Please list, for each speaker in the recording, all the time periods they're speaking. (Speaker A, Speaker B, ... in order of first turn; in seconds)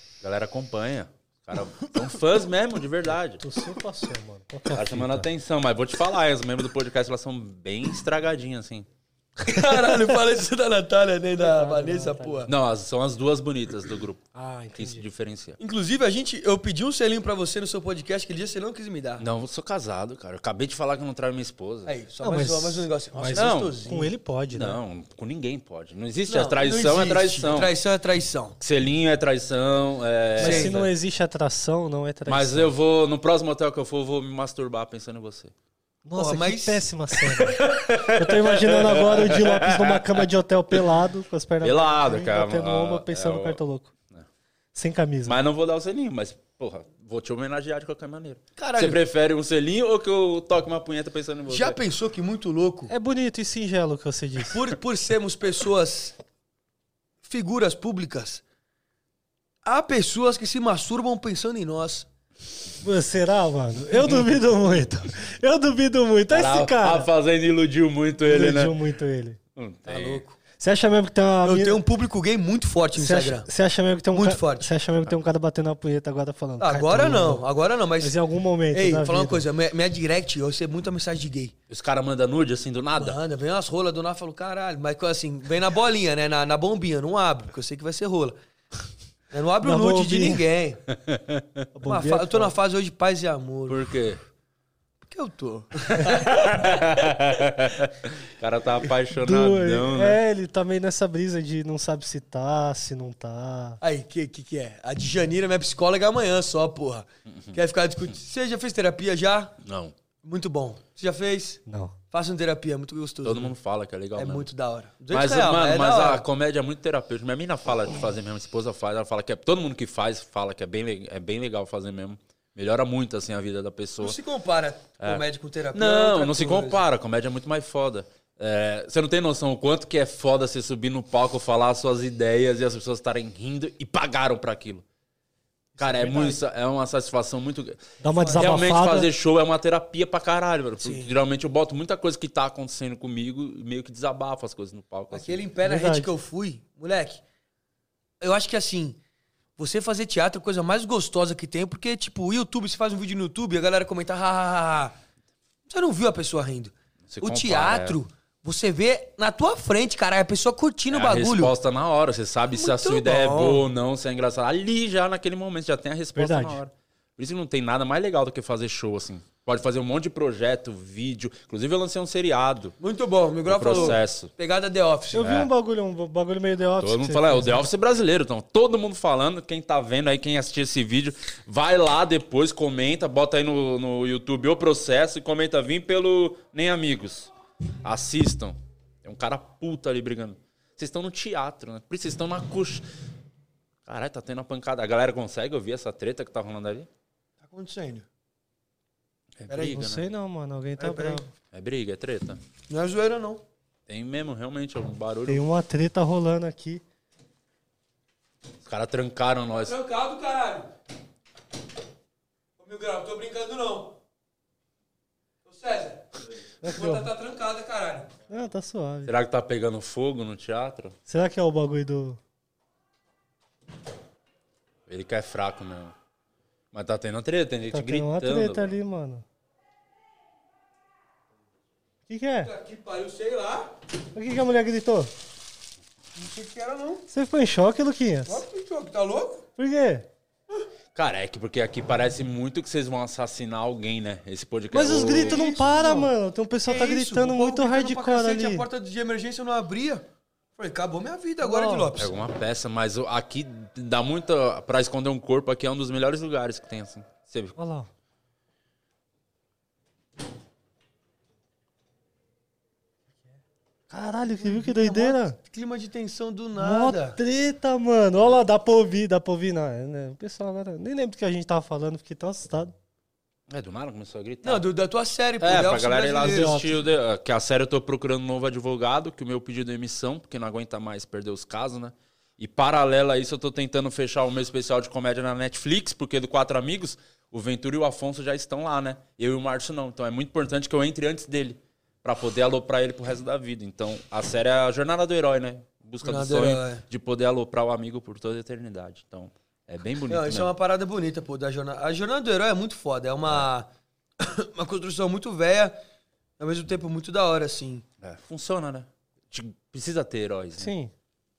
Speaker A: 0.2-3.4, 4.7-8.9, 12.5-14.2, 14.8-15.6, 19.2-21.9, 23.3-23.8, 24.5-27.7, 28.6-30.9, 32.3-35.5, 37.3-40.8, 41.6-44.3, 45.2-51.8, 63.9-64.3, 66.3-68.8, 69.5-70.2, 81.7-83.2, 90.9-91.6, 93.7-94.2, 95.9-100.2, 107.3-107.6, 109.6-109.9, 113.2-114.5, 115.1-124.2, 125.0-134.8, 135.8-137.8, 138.3-145.4, 157.1-158.0, 160.9-172.7, 173.4-174.3, 175.2-175.5, 176.8-187.3, 187.8-192.8, 193.8-196.9, 199.4-200.1, 201.5-202.4, 203.9-205.4, 208.6-209.8, 219.1-220.9, 224.9-225.9, 226.7-228.7, 240.9-245.4, 252.0-257.5, 273.5-274.6, 275.4-300.5, 308.0-310.7
Speaker B: 3.4-5.3, 9.5-10.1, 11.4-12.5, 14.3-15.0, 22.2-24.8, 30.4-32.7, 36.0-43.9, 44.7-45.4, 52.9-54.7, 62.8-67.1, 68.2-69.4, 70.6-71.8, 72.9-77.4, 78.0-79.4, 89.6-90.4, 91.7-92.5, 99.2-103.8, 111.7-111.9, 138.0-139.1, 145.6-146.1, 166.1-166.6, 175.1-177.7, 199.6-201.3, 205.3-206.8, 216.6-217.1, 218.3-219.1, 221.1-222.2, 227.7-229.2, 232.1-232.5, 234.1-235.1, 237.1-238.4, 239.6-240.1, 244.7-248.7, 251.4-251.9, 257.6-257.9, 263.9-265.4, 266.6-272.7, 276.2-276.8, 310.6-310.9
Speaker C: 9.4-12.5, 15.6-19.2, 21.9-24.1, 26.3-28.6, 30.4-30.8, 36.1-36.9, 48.6-49.0, 51.5-52.9, 54.5-56.1, 57.2-58.4, 59.6-62.1, 69.9-70.4, 71.4-73.5, 74.1-74.7, 76.6-78.2, 78.7-81.5, 83.0-88.4, 89.3-90.8, 91.8-93.8, 95.0-97.0, 103.8-109.6, 110.2-113.5, 114.1-116.2, 124.0-126.8, 135.8-136.4, 138.1-138.6, 140.8-141.1, 145.1-147.2, 148.2-149.0, 149.6-154.9, 155.7-161.5, 162.5-163.7, 172.8-175.3, 197.4-198.1, 199.5-199.8, 200.8-201.2, 202.7-203.4, 209.6-210.7, 212.6-213.9, 215.4-216.1, 216.6-218.1, 232.4-233.7, 236.2-237.0, 238.3-239.4, 245.1-246.1, 246.7-250.0, 250.6-252.1, 264.4-267.2, 274.4-276.6, 296.0-296.8, 300.1-303.7, 304.2-305.8, 306.4-307.8